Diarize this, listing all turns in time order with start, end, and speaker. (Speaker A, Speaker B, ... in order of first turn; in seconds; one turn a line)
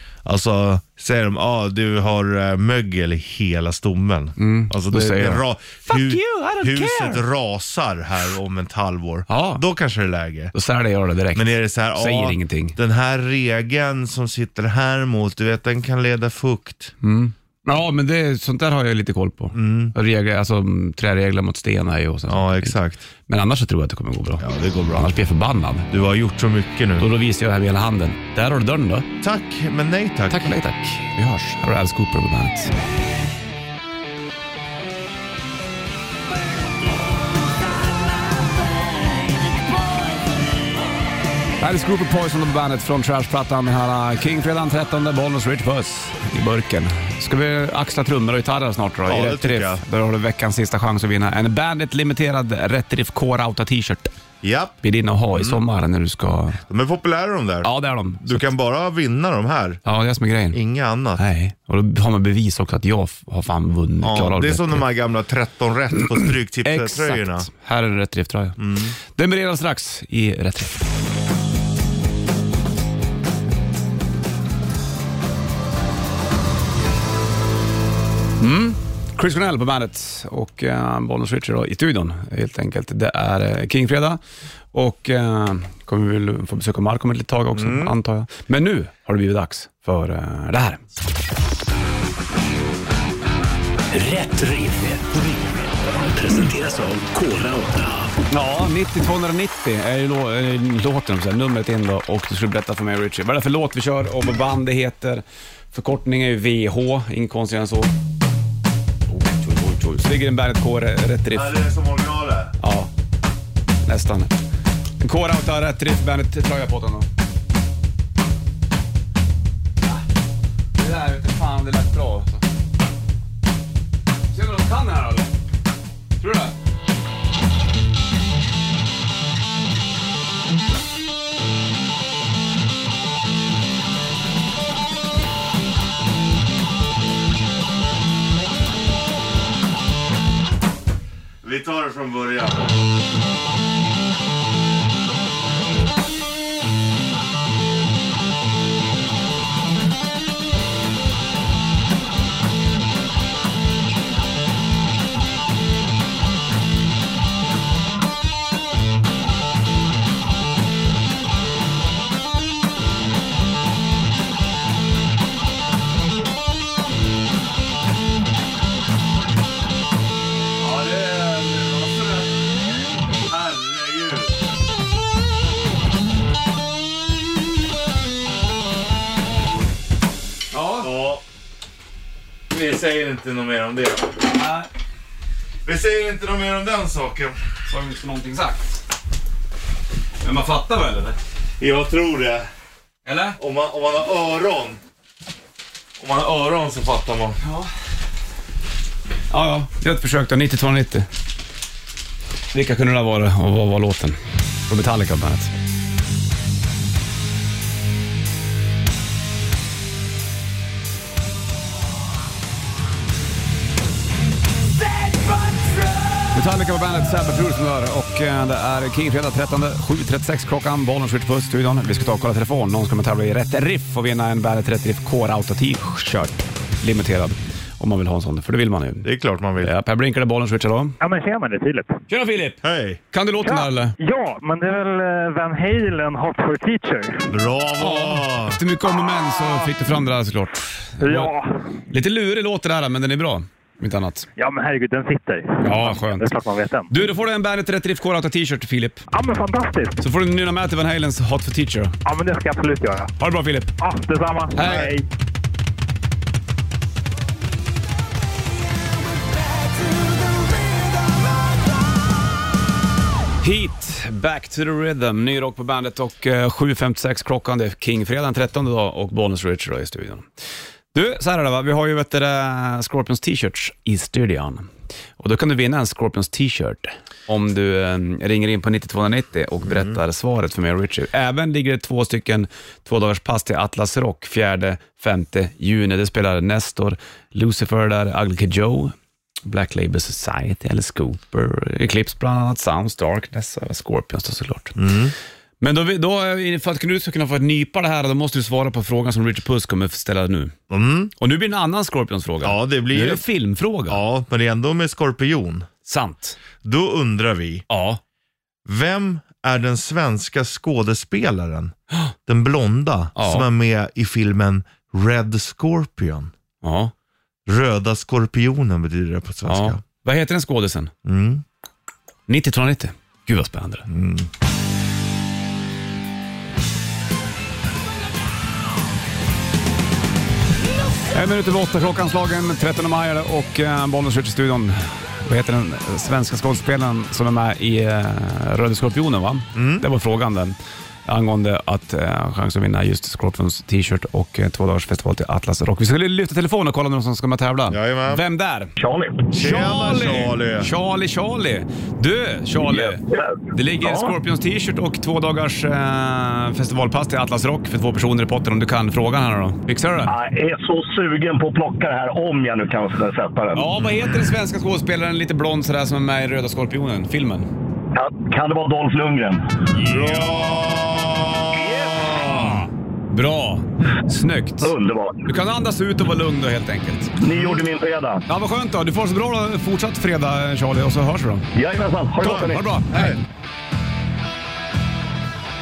Speaker A: 0.2-10.5
Speaker B: 4.4-7.2
Speaker B: 9.3-9.6
Speaker B: 10.5-12.8
Speaker A: 11.3-16.9
Speaker B: 17.0-25.9
Speaker A: 19.5-19.9
Speaker A: 22.3-23.0
Speaker A: 24.4-25.1
Speaker A: 25.9-27.1
Speaker B: 27.0-29.1
Speaker A: 29.2-30.6
Speaker B: 30.3-32.7
Speaker B: 41.6-54.1
Speaker A: 49.0-49.8
Speaker A: 54.4-54.8
Speaker B: 54.8-56.6
Speaker A: 55.3-55.6
Speaker A: 56.7-57.7
Speaker B: 57.6-58.5
Speaker A: 58.2-59.8
Speaker B: 59.8-60.6
Speaker A: 60.5-61.2
Speaker B: 61.2-64.8
Speaker A: 64.0-67.5
Speaker B: 66.6-70.8
Speaker A: 68.6-69.0
Speaker B: 78.4-84.2
Speaker B: 84.7-90.8
Speaker A: 87.5-87.9
Speaker C: 93.9-98.2
Speaker B: 98.3-107.9
Speaker B: 109.1-111.6
Speaker A: 111.3-112.5
Speaker B: 112.6-112.9
Speaker B: 113.8-114.3
Speaker B: 115.0-117.1
Speaker B: 120.7-122.4
Speaker B: 124.3-125.3
Speaker B: 126.2-126.5
Speaker A: 141.4-142.7
Speaker A: 170.6-172.3
Speaker A: 173.2-174.3
Speaker B: 180.5-180.9
Speaker A: 180.8-181.2
Speaker A: 182.5-184.3
Speaker B: 184.3-184.7
Speaker A: 185.6-187.4
Speaker B: 187.7-188.8
Speaker B: 190.2-191.2
Speaker A: 191.6-192.5
Speaker B: 193.0-193.4
Speaker A: 193.4-194.8
Speaker A: 196.0-197.4
Speaker B: 197.4-197.7
Speaker B: 199.3-201.1
Speaker B: 202.5-205.5
Speaker B: 216.3-229.1
Speaker A: 229.0-229.7
Speaker B: 229.6-231.0
Speaker D: 231.0-232.0
Speaker B: 232.1-233.9
Speaker A: 232.6-233.0
Speaker D: 233.4-237.3
Speaker A: 237.3-238.6
Speaker B: 237.8-241.3
Speaker D: 241.0-241.6
Speaker B: 241.9-244.3
Speaker D: 244.4-246.9
Speaker B: 245.6-246.3
Speaker B: 246.9-249.0
Speaker D: 249.1-250.0
Speaker B: 250.0-252.0
Speaker D: 252.0-253.1
Speaker B: 253.2-253.7
Speaker D: 253.8-255.0
Speaker B: 254.5-254.9
Speaker A: 254.6-254.9
Speaker B: 263.4-270.2
Speaker B: 270.9-288.9
Speaker A: 279.6-279.9
Speaker B: 289.4-294.8
Speaker A: 294.8-295.1
Speaker B: 295.6-300.5
Speaker A: 300.7-301.1
Speaker B: 301.2-304.0
Speaker A: 302.4-303.2
Speaker A: 303.9-305.7
Speaker B: 305.8-306.4
Speaker A: 306.6-307.6
Speaker B: 307.7-308.0
Speaker A: 308.6-311.7
Speaker A: 312.2-316.3
Speaker B: 313.1-313.5
Speaker B: 316.6-316.9
Speaker A: 317.5-319.8
Speaker B: 319.5-320.9
Speaker A: 321.0-321.4
Speaker B: 322.3-323.9
Speaker A: 323.9-324.3
Speaker B: 331.1-348.7
Speaker A: 339.5-339.8
Speaker A: 347.7-348.2
Speaker E: 348.8-349.3
Speaker A: 349.3-350.7
Speaker B: 349.3-360.1
Speaker E: 352.8-354.1
Speaker E: 360.1-363.7
Speaker B: 363.5-367.5
Speaker E: 367.9-369.4
Speaker B: 369.8-370.5
Speaker A: 369.9-372.6
Speaker E: 371.6-372.5
Speaker B: 372.2-372.6
Speaker B: 373.1-374.7
Speaker E: 374.6-375.2
Speaker B: 375.2-377.1
Speaker E: 377.2-378.2
Speaker B: 378.3-381.5
Speaker E: 381.5-382.6
Speaker B: 382.2-383.2